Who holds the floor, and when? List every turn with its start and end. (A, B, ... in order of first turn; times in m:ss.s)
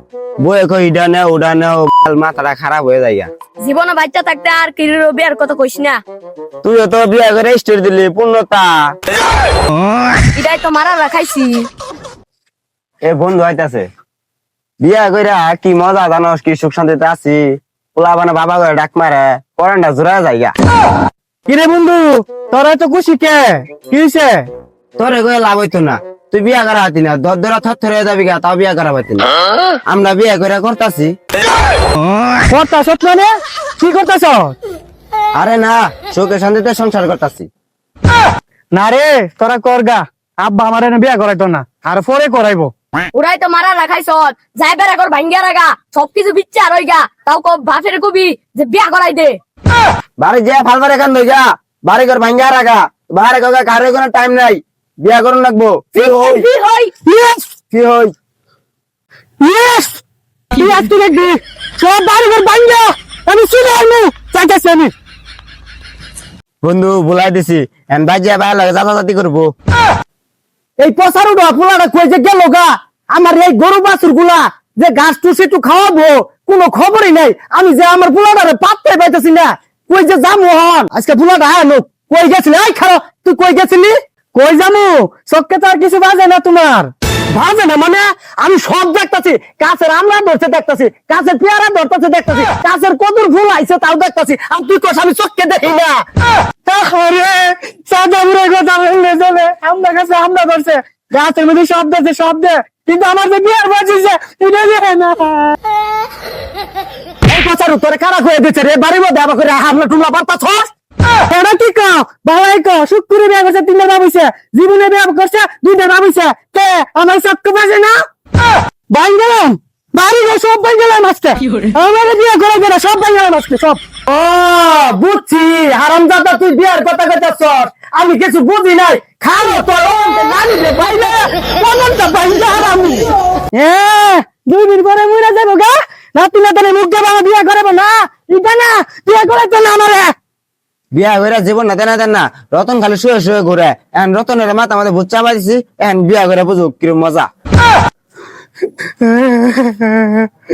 0:00.4-0:03.3 A
0:03.6-0:06.0 B
0:06.6-0:08.8 A
0:10.3-0:11.7 B
0:13.0-0:13.9 A
0:14.8-0:20.5 A
0:21.5-0:24.4 C
0:25.0-0:29.3 A
0:29.9-0:31.1 A
0:32.5-0:34.5 C
0:35.4-0:37.5 A
0:38.7-0:42.7 C
0:43.1-0:49.4 B
0:50.2-0:56.4 A
0:56.0-0:56.9 B
0:57.0-0:57.4 C
0:57.7-0:58.1 A
0:59.4-1:00.0 C
1:00.5-1:04.9 C
1:06.6-1:09.5 A
1:10.8-1:36.0 C
1:36.6-1:45.6 C
1:47.2-1:58.0 C
1:58.9-2:20.1 C
2:20.9-2:27.3 A
2:28.9-2:30.3 C